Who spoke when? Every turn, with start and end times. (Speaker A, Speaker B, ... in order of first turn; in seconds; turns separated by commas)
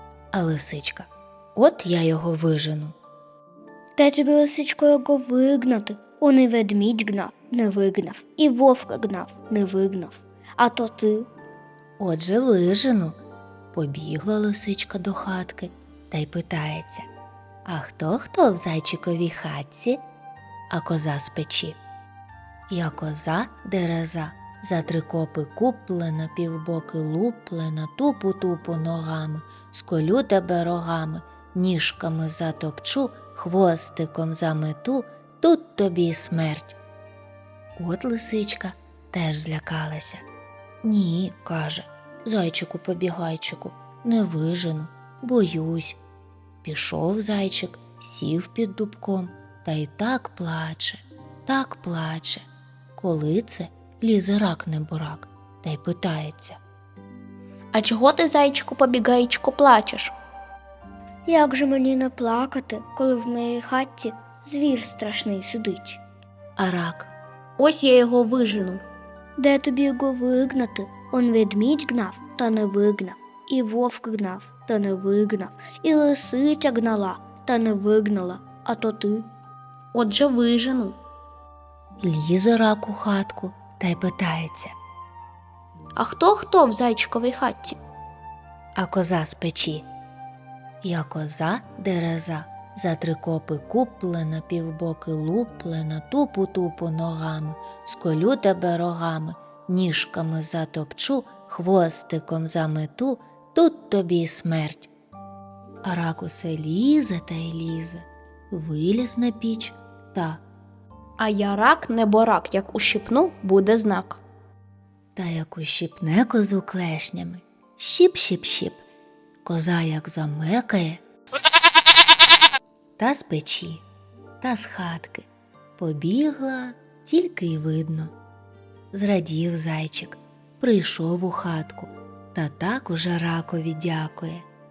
Speaker A: 0.3-3.0, Speaker B: 4.0-11.3, Speaker A: 12.0-13.2, Speaker A: 13.7-17.1, Speaker A: 17.6-20.0, Speaker A: 20.7-21.8, Speaker A: 22.7-36.8, Speaker A: 37.8-40.2, Speaker A: 40.8-46.0, Speaker A: 46.6-56.6, Speaker C: 57.7-60.1, Speaker B: 61.3-66.0, Speaker A: 66.6-67.1, Speaker C: 67.6-68.8, Speaker B: 69.4-79.3, Speaker C: 79.9-81.0, Speaker A: 82.0-84.8, Speaker C: 86.0-87.8, Speaker A: 88.8-89.9, Speaker A: 90.8-104.9, Speaker A: 105.8-110.4, Speaker C: 111.2-114.2, Speaker A: 115.2-118.8, Speaker A: 119.4-121.0, Speaker A: 123.0-123.8, Speaker A: 124.4-128.1, Speaker A: 128.9-134.5